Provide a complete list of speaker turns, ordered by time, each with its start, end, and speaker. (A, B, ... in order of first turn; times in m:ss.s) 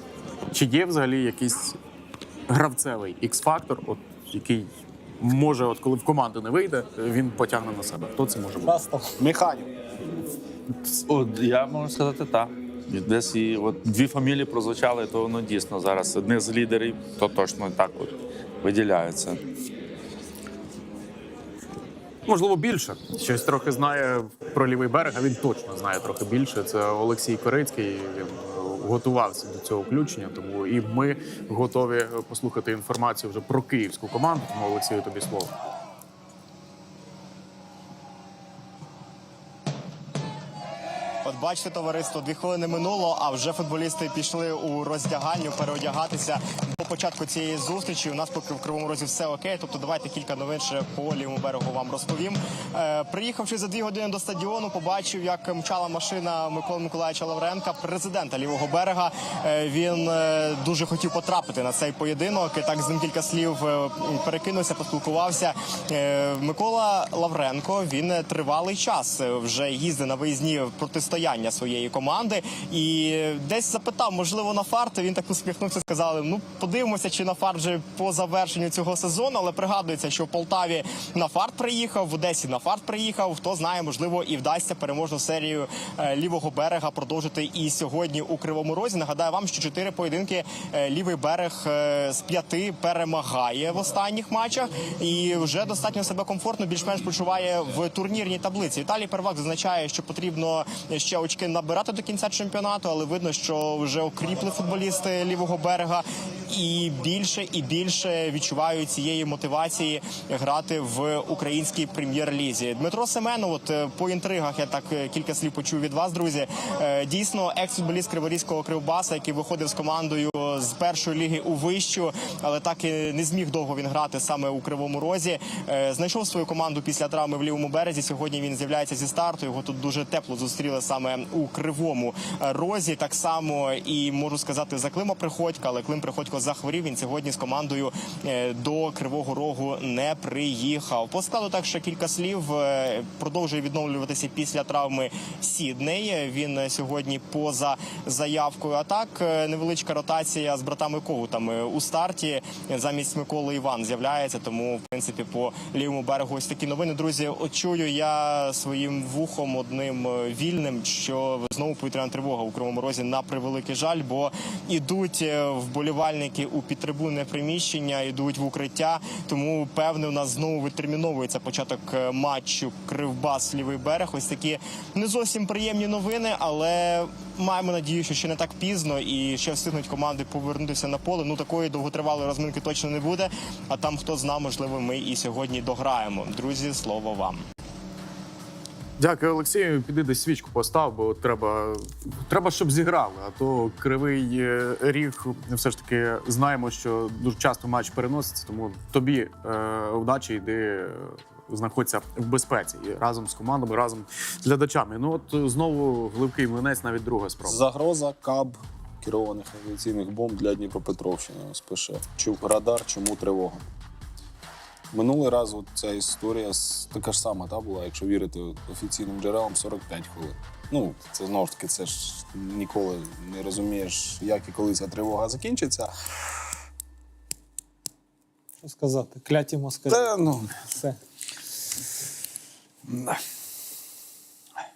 0:00.5-0:01.8 A
0:02.5-0:08.8 A
0:08.6-0:09.2 B
0:09.2-0:09.7 C
0:10.7-0:19.4 D
0:22.3-0:35.5 A
0:41.2-3:07.4 E
3:09.0-3:27.6 A
3:27.4-3:33.6 C
3:34.9-3:45.9 C
3:48.6-3:51.0 B
3:49.9-3:50.5 C